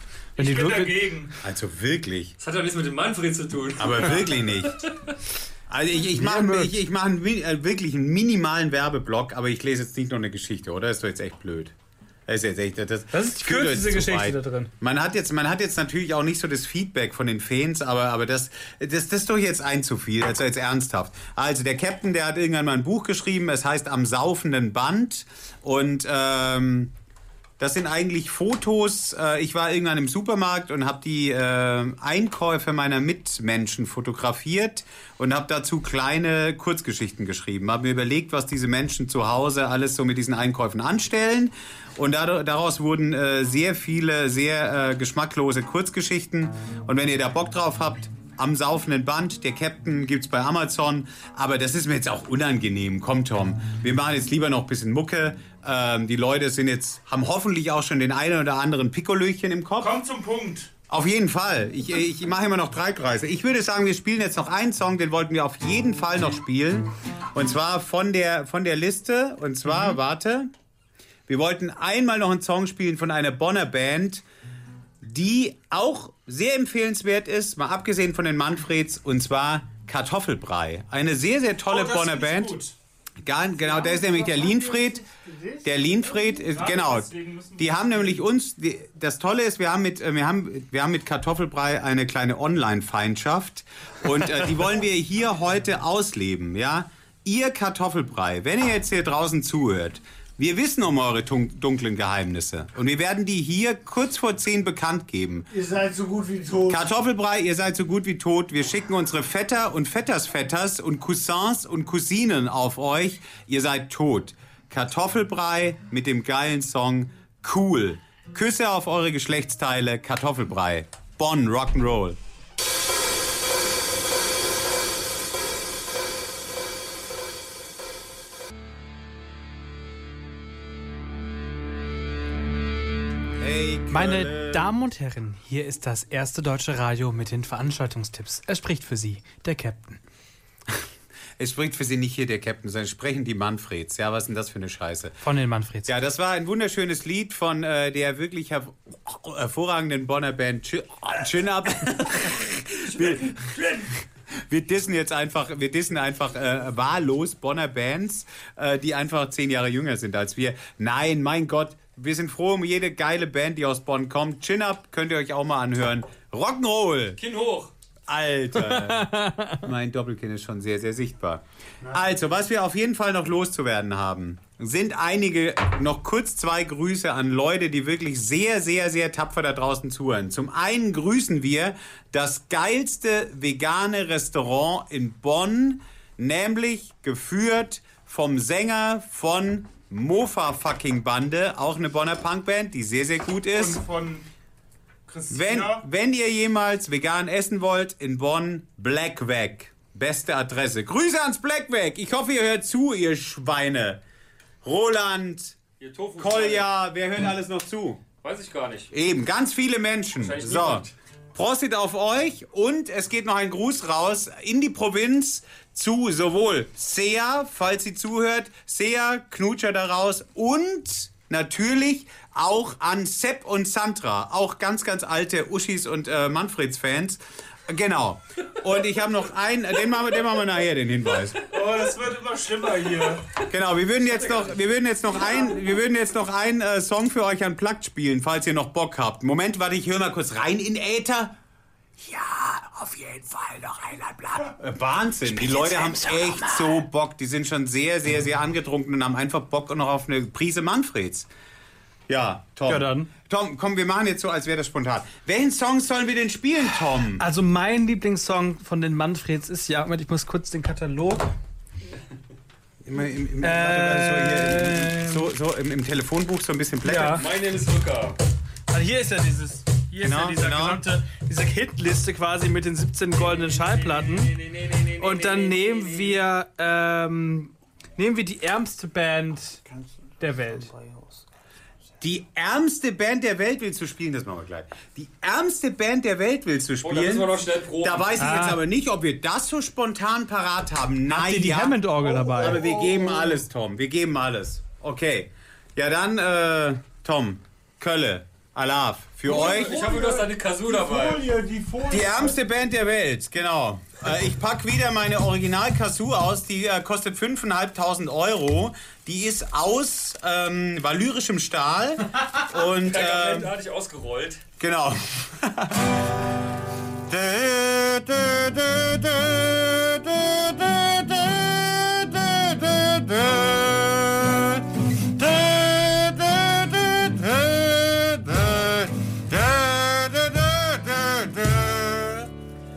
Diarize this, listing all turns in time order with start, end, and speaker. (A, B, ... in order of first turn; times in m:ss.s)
0:00.4-0:01.4 A
0:00.4-0:01.2 B
0:01.4-0:02.4 C
0:02.4-0:04.9 D
0:03.8-0:04.8 C
0:05.7-0:11.7 C
0:06.1-0:06.8 B
0:12.3-0:26.9 C
0:13.1-0:14.7 B
0:27.6-1:00.0 C
0:59.8-1:00.7 A
1:00.9-1:10.5 C
1:11.3-1:14.2 C
1:15.0-1:22.6 C
1:21.7-1:22.5 A
1:23.2-1:25.0 C
1:23.6-1:25.9 E
1:25.6-1:45.5 C
1:26.4-1:28.2 A
1:45.5-1:46.8 E
1:46.7-2:02.2 C
2:13.4-2:14.7 C
2:13.9-2:20.0 B
2:21.4-2:25.2 C
2:25.2-2:25.9 B
2:25.9-2:33.5 C
2:33.0-2:33.8 D
2:34.3-2:47.2 C
2:47.2-2:47.7 D
2:48.1-2:49.1 C
2:48.6-2:49.7 B
2:49.6-3:13.8 C
3:13.5-3:14.2 A
3:15.1-3:15.8 A
3:15.3-3:24.0 C
3:24.6-3:25.6 C
3:25.8-3:26.7 D
3:26.2-3:28.0 C
3:28.2-3:28.9 D
3:28.9-3:51.5 C
3:30.2-3:30.9 D
3:51.5-3:53.3 A
3:53.5-4:01.4 C
4:02.0-4:11.3 C
4:12.1-4:17.2 C
4:12.6-4:13.1 B
4:17.2-4:21.3 B
4:22.8-4:27.2 C
4:23.4-4:25.3 B
4:26.8-4:27.2 B
4:27.1-4:28.2 D
4:28.7-4:34.3 B
4:30.0-4:30.8 C
4:33.2-4:36.2 D
4:35.0-4:39.6 B
4:40.2-4:40.7 B
4:40.5-4:41.2 E
4:42.0-4:59.8 C
4:46.8-4:48.2 D
4:48.2-4:48.6 B
4:51.1-4:52.6 B
4:52.1-4:53.4 E
4:59.3-5:02.4 E
4:59.3-5:01.3 D
5:01.9-5:13.5 C
5:12.6-5:14.4 D
5:14.6-5:16.0 C
5:17.1-5:32.3 C